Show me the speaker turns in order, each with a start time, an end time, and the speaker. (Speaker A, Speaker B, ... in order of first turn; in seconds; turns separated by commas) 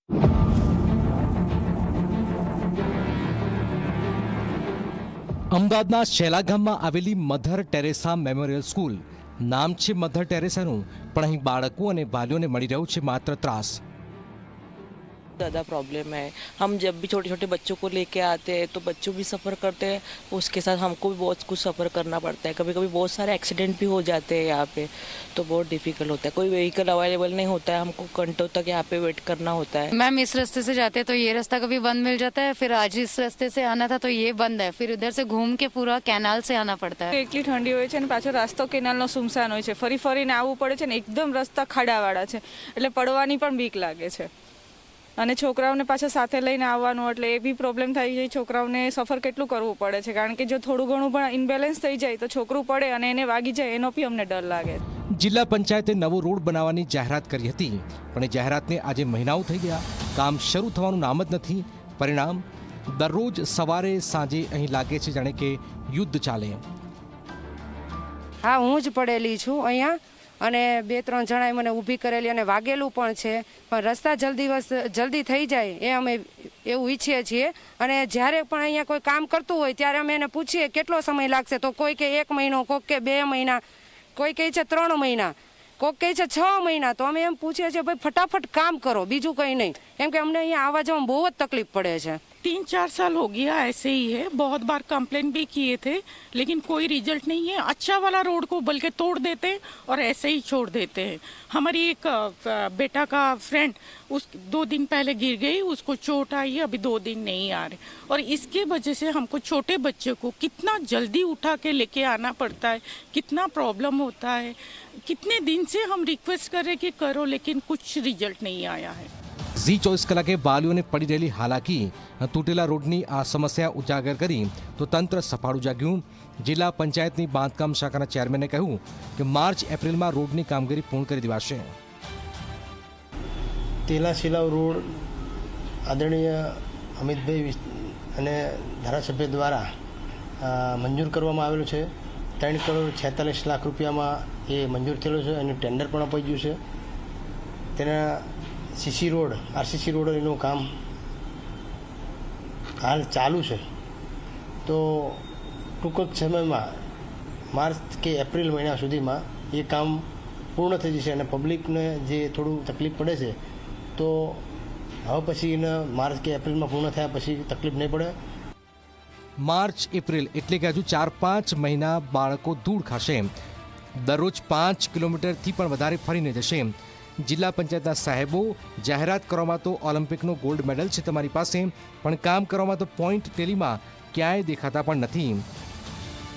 Speaker A: 5.5-13.8, Speaker B: 15.4-29.9, Speaker C: 29.9-37.1, Speaker D: 37.1-44.3, Speaker D: 45.2-54.8, Speaker A: 55.2-66.6, Speaker E: 68.4-83.6, Speaker E: 84.2-92.2, Speaker F: 92.4-119.1, Speaker A: 119.6-131.7, Speaker G: 133.9-134.9, Speaker G: 135.8-139.7, Speaker G: 140.4-141.9, Speaker G: 142.4-146.6, Speaker G: 147.8-150.7, Speaker G: 152.8-153.6, Speaker G: 154.6-155.2, Speaker G: 155.8-156.7, Speaker G: 157.5-163.3, Speaker G: 164.0-164.4, Speaker G: 165.0-168.1, Speaker A: 169.4-173.3, Speaker A: 174.0-176.7, Speaker A: 177.2-185.4